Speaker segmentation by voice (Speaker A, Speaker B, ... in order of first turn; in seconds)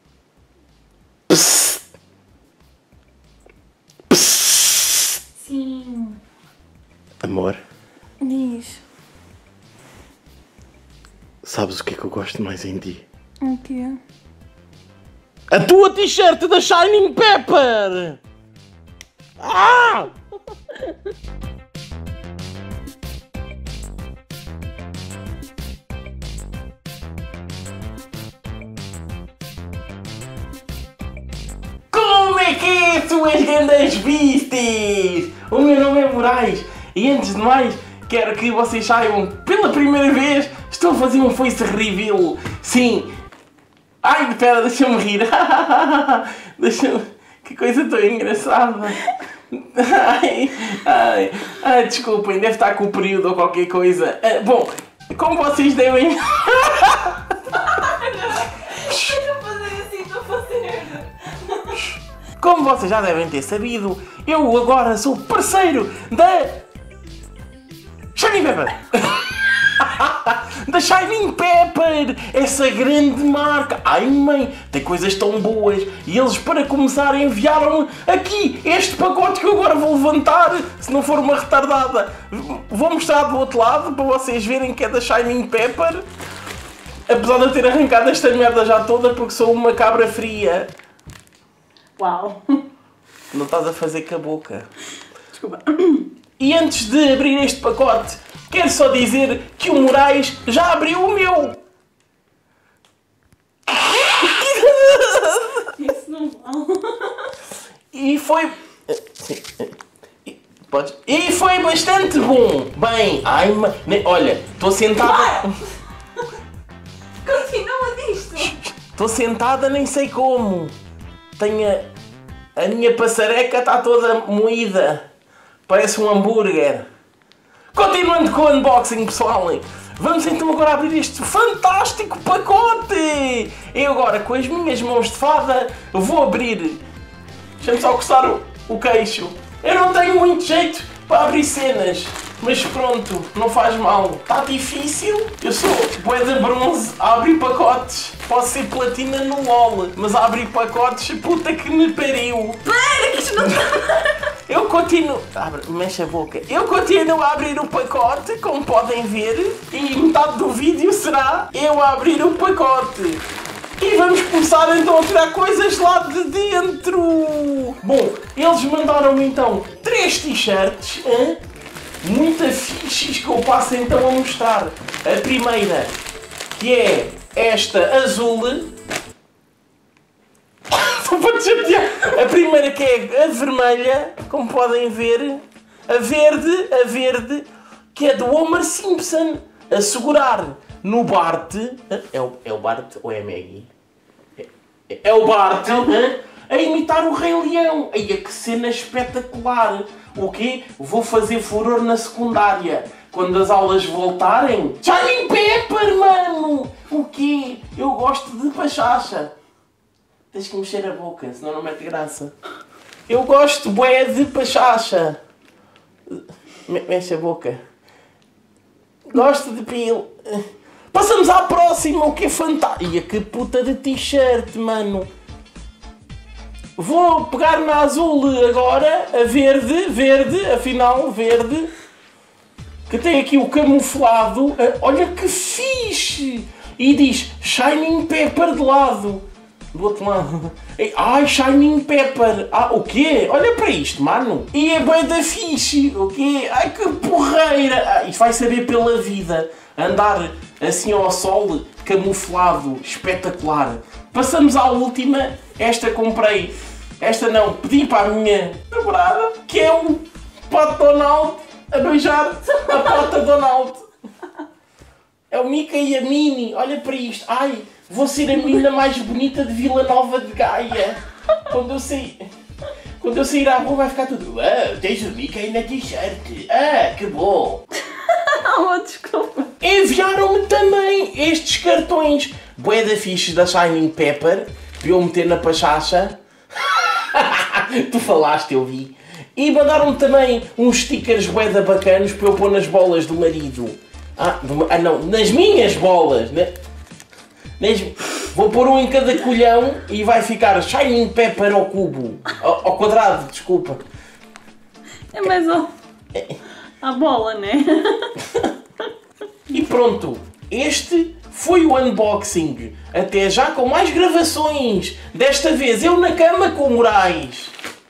Speaker A: 1.3-1.8, 4.1-4.8, 7.2-7.6, 11.4-13.1, 15.5-18.2, 19.4-20.1, 31.9-43.1, 44.0-57.6, 58.8-59.2, 61.7-66.6, 68.2-86.1, 87.1-90.7, 93.3-94.7, 96.4-101.6, 103.7-105.7, 107.9-109.7, 110.2-115.6, 118.4-120.7, 121.4-121.9, 122.6-125.1, 125.7-126.9, 127.7-136.8, 137.6-152.8, 154.5-163.2, 163.8-171.4, 172.0-176.0, 176.5-178.7, 180.7-193.7, 194.4-209.3, 210.3-212.3, 213.1-215.2, 216.1-217.6, 219.1-225.1, 226.8-231.7, 232.9-263.8, 265.3-272.3, 273.0-277.6, 279.6-296.6, 297.6-303.8, 308.2-308.5, 309.5-317.5
Speaker B: 5.4-6.2, 8.2-8.8, 13.4-14.0, 57.6-61.8, 92.0-92.6, 95.3-96.1, 105.6-107.3, 115.1-115.5, 117.2-118.6, 152.7-154.1, 277.9-279.5, 305.1-305.7, 306.8-308.2